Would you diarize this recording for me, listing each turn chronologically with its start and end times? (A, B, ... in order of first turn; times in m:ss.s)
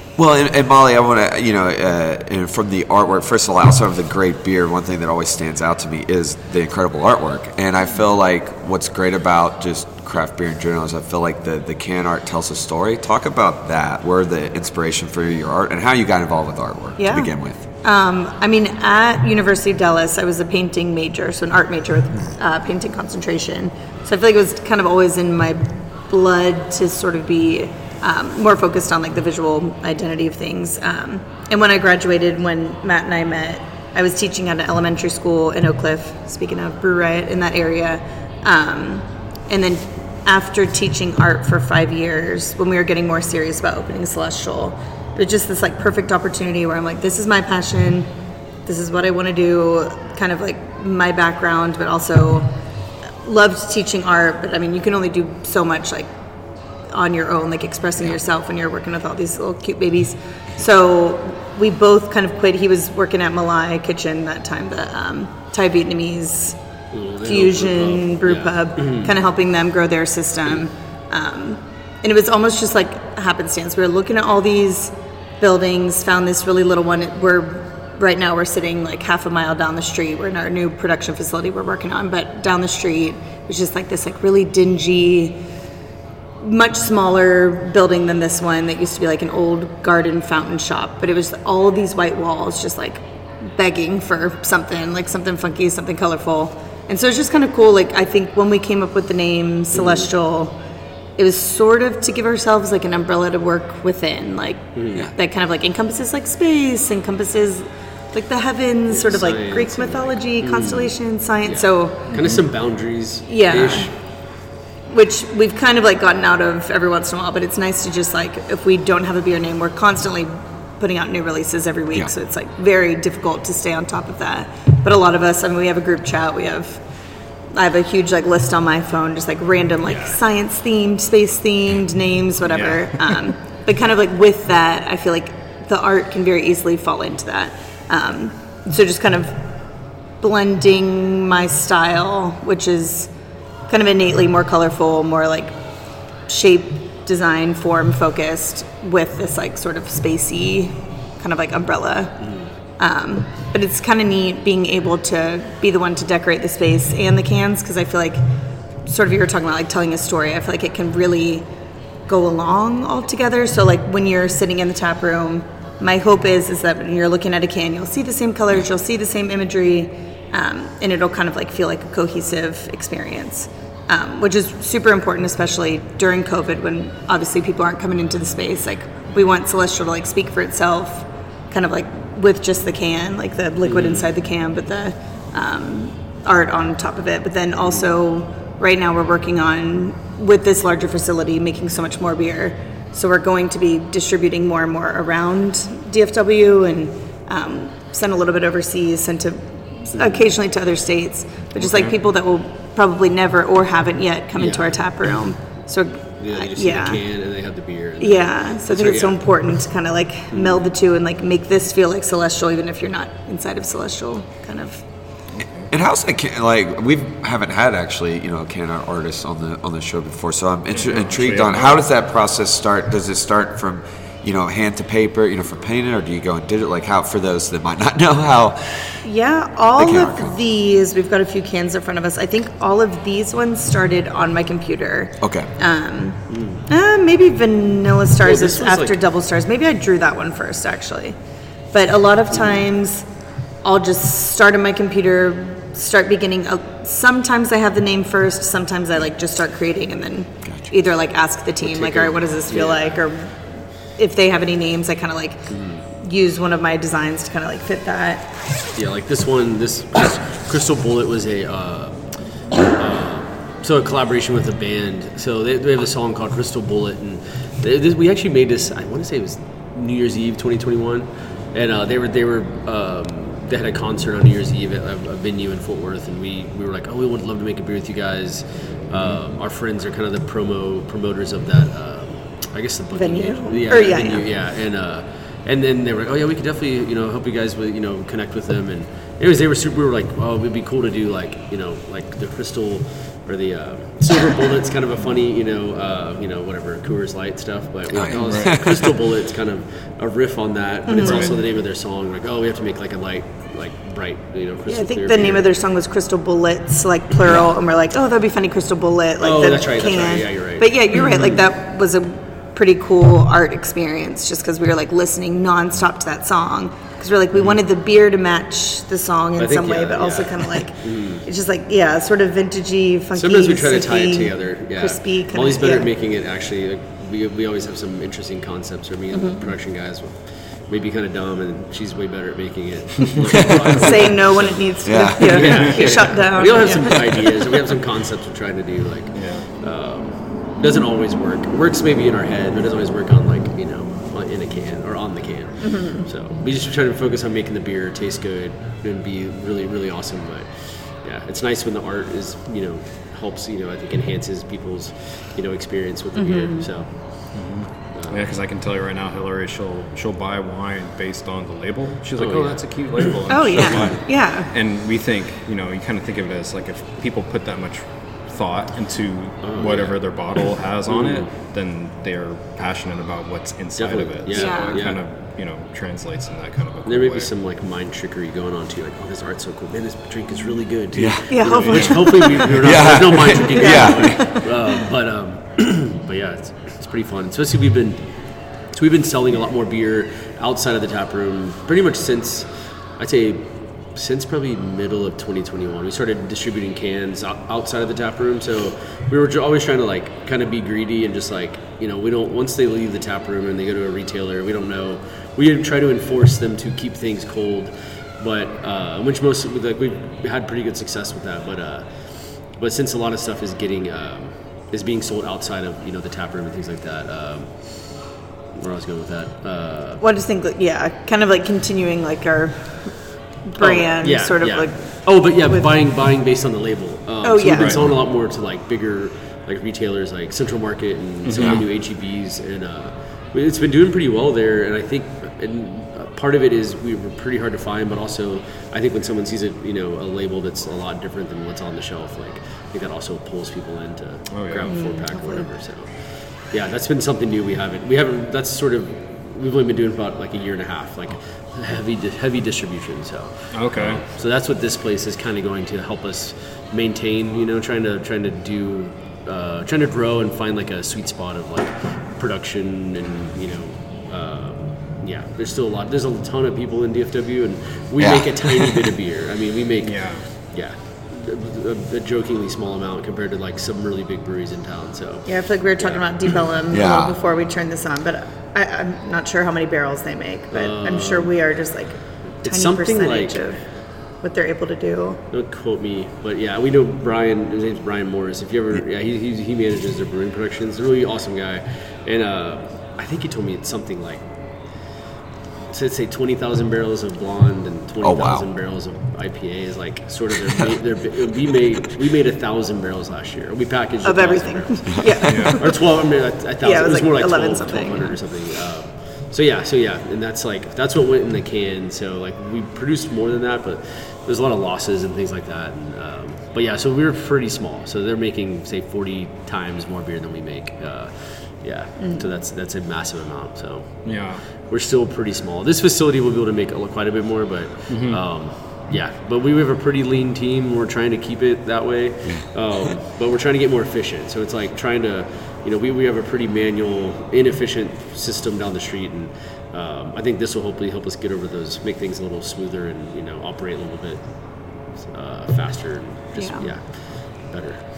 0:00.2-0:17.6 A
0:17.0-0:48.1 B
0:48.6-0:52.5 B
0:53.2-0:56.1 B
0:56.9-1:06.6 B
1:06.9-1:09.1 C
1:07.2-1:25.4 B
1:26.4-1:40.6 B
1:39.7-1:40.1 C
1:41.2-1:52.1 B
1:44.7-1:45.1 C
1:48.9-1:53.9 C
1:52.1-1:52.4 D
1:53.3-1:53.9 B
1:54.9-2:06.8 B
2:07.5-2:19.5 B
2:09.9-2:10.2 C
2:12.5-2:13.3 D
2:20.2-2:23.1 B
2:23.7-2:25.6 B
2:26.3-2:38.2 B
2:32.2-2:32.5 C
2:38.8-2:41.5 B
2:42.1-3:27.0 B
3:03.6-3:04.1 C
3:20.0-3:20.3 C
3:21.6-3:21.9 D
3:24.4-3:24.8 C
3:26.2-3:29.2 C
3:28.0-3:34.8 B
3:30.3-3:30.6 C
3:35.3-3:35.7 D
3:35.7-3:49.0 A
3:40.7-3:41.8 D
3:49.0-4:01.2 B
3:49.8-3:50.4 A
3:55.2-3:55.5 A
3:56.3-3:56.6 C
3:58.2-3:59.0 C
4:01.7-4:03.0 B
4:03.6-4:18.4 B
4:11.6-4:12.9 C
4:15.5-4:15.8 C
4:18.7-5:05.5 C
4:42.9-4:44.3 B
4:57.9-4:59.0 A
4:58.1-4:58.5 D
5:00.9-5:01.4 B
5:01.0-5:01.3 D
5:04.6-5:25.9 B
5:09.2-5:11.3 C
5:19.4-5:21.2 C
5:23.1-5:57.4 C
5:29.1-5:29.4 B
5:33.4-5:33.7 A
5:33.7-5:37.3 B
5:34.8-5:35.8 A
5:35.4-5:37.0 D
5:39.1-5:39.5 D
5:45.6-5:46.0 B
5:56.2-5:56.7 B
5:57.3-6:17.3 D
5:57.9-5:58.4 C
6:02.2-6:03.9 C
6:03.3-6:04.5 B
6:09.4-6:10.2 C
6:10.9-6:11.3 C
6:13.8-6:15.0 C
6:14.3-6:14.8 B
6:16.8-6:28.0 C
6:20.9-6:24.4 A
6:21.3-6:22.4 B
6:21.7-6:22.4 D
6:23.4-6:24.5 B
6:28.7-7:00.0 C
7:00.0-7:05.7 B
7:03.6-7:56.3 C
7:07.2-7:07.8 B
7:07.5-7:07.8 D
7:11.2-7:11.6 D
7:11.4-7:11.6 A
7:24.3-7:24.8 D
7:24.6-7:25.5 B
7:33.5-7:34.0 D
7:48.0-7:48.9 A
7:49.8-7:50.2 D
7:55.3-8:03.6 B
7:56.7-7:57.2 A
8:00.5-8:01.3 C
8:02.4-8:03.5 C
8:04.2-8:05.2 B
8:05.3-8:14.2 C
8:15.7-9:04.3 C
8:18.0-8:18.5 A
8:24.0-8:25.8 B
8:25.2-8:25.6 D
8:26.6-8:28.2 B
8:42.0-8:42.3 B
8:44.0-8:44.4 D
8:47.9-8:48.2 D
9:04.8-9:07.8 C
9:06.4-9:06.7 B